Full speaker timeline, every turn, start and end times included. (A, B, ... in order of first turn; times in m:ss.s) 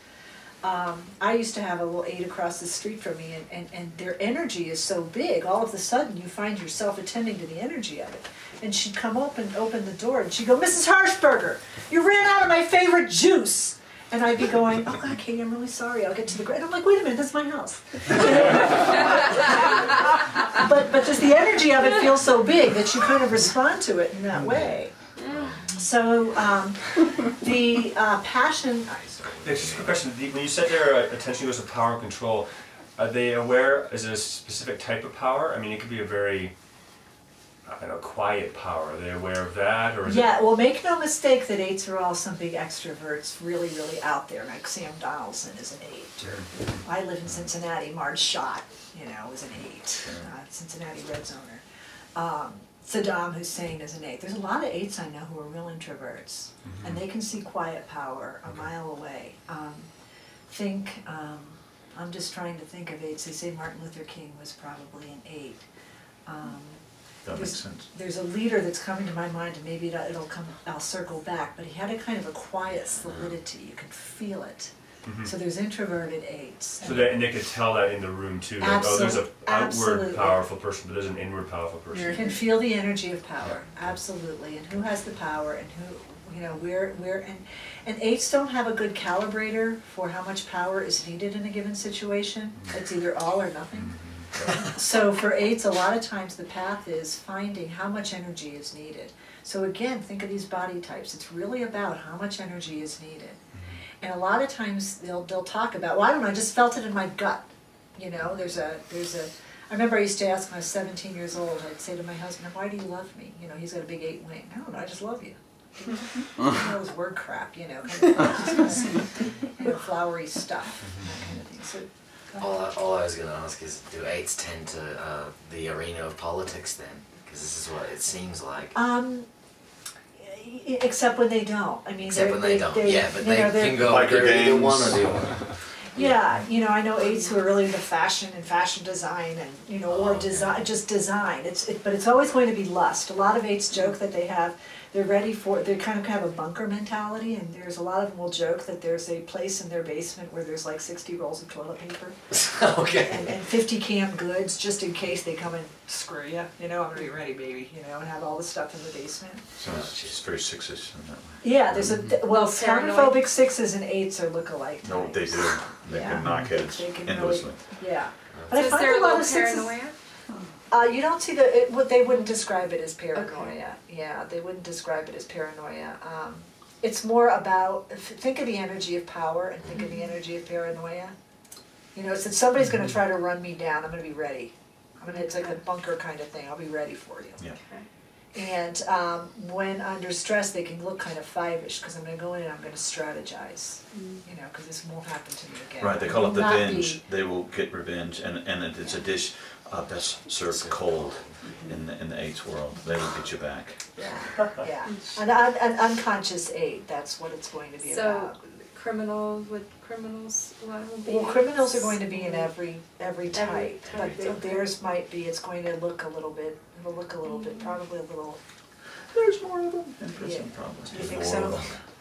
0:00.6-0:25.0 A
0:25.2-0:25.4 B
0:25.2-0:25.7 C
0:25.7-0:29.3 A
0:28.9-0:30.0 C
0:29.4-0:36.5 D
0:37.6-0:40.4 D
0:40.0-0:51.6 A
0:52.1-0:59.9 A
0:56.6-0:56.9 D
1:00.5-1:05.7 A
1:06.2-1:17.2 A
1:07.2-1:07.9 E
1:15.0-1:15.3 D
1:16.8-1:22.4 D
1:18.6-1:20.4 A
1:22.1-1:43.4 A
1:34.4-1:34.6 E
1:44.0-2:02.4 A
2:02.4-2:08.8 C
2:08.7-2:09.3 A
2:10.2-2:14.0 A
2:12.0-2:16.0 C
2:13.8-2:15.3 E
2:15.9-2:32.3 A
2:19.9-2:20.6 C
2:32.3-2:33.3 C
2:33.0-2:39.5 A
2:39.6-2:42.0 E
2:39.6-2:40.2 C
2:41.4-2:49.8 A
2:42.2-2:43.2 B
2:44.8-2:47.6 E
2:48.3-2:48.7 C
2:48.5-2:50.0 B
2:50.7-3:01.1 A
2:53.1-2:53.5 B
2:59.7-3:00.1 B
3:01.9-3:07.4 A
3:05.1-3:05.4 B
3:08.3-3:17.0 A
3:13.9-3:14.2 B
3:15.8-3:24.2 E
3:20.5-3:21.4 C
3:24.0-3:28.4 A
3:27.8-3:32.5 B
3:31.0-3:38.4 A
3:33.3-3:34.7 B
3:33.8-3:34.4 C
3:37.2-3:37.8 B
3:39.1-3:41.8 E
3:40.2-3:41.8 A
3:41.0-3:41.8 C